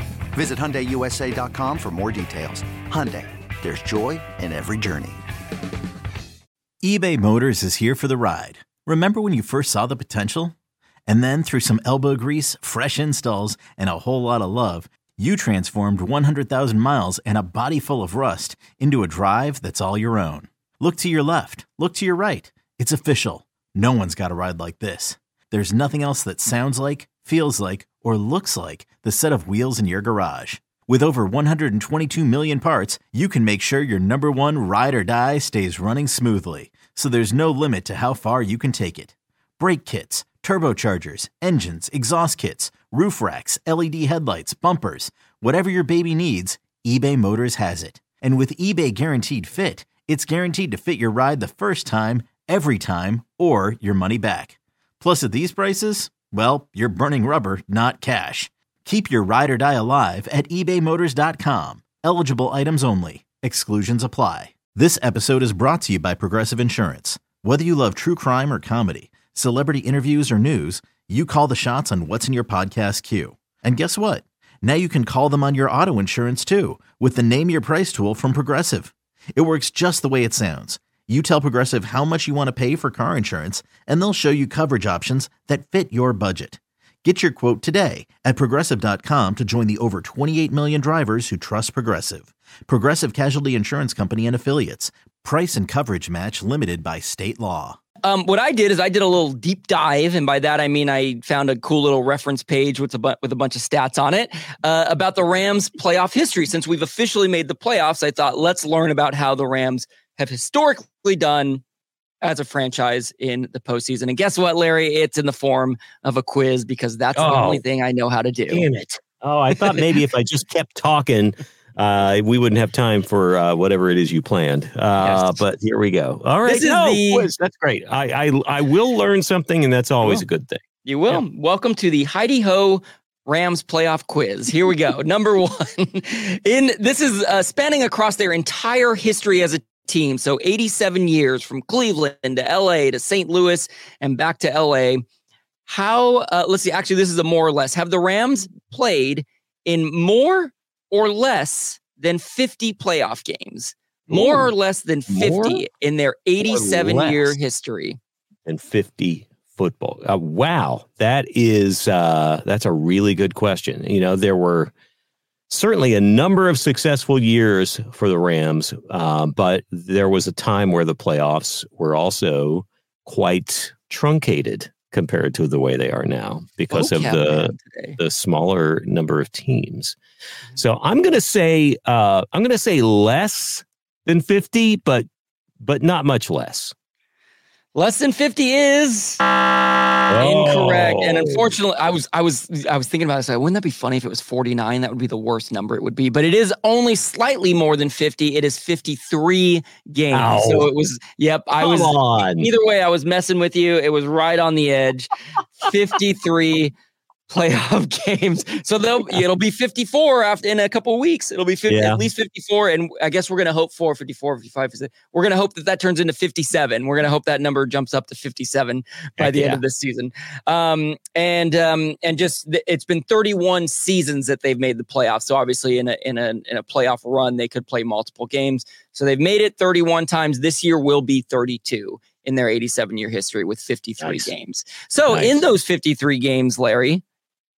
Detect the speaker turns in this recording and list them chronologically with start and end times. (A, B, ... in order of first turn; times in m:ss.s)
0:00.3-0:05.2 A
0:06.8-0:10.5 B
0:11.1-1:37.8 B
1:38.0-1:51.6 C
1:52.2-1:58.7 C
1:57.1-1:57.6 D
1:58.5-2:11.2 D
2:05.0-2:05.3 C
2:06.4-2:07.3 C
2:10.8-2:25.0 C
2:25.7-2:38.0 C
2:34.1-2:34.5 D
2:35.1-2:35.6 D
2:36.4-2:37.4 D
2:38.5-2:44.7 D
2:45.5-3:00.0 D
2:56.7-2:58.0 C
3:00.6-3:05.1 D
3:05.6-3:06.7 D
3:07.7-3:09.2 C
3:10.1-3:11.5 D
3:10.2-3:25.1 C
3:20.1-3:20.7 D
3:21.6-3:22.5 D
3:25.6-3:26.8 C
3:27.3-3:57.0 C
3:31.7-3:32.0 D
3:39.2-3:39.6 D
3:54.0-3:54.3 D
3:55.0-3:55.4 D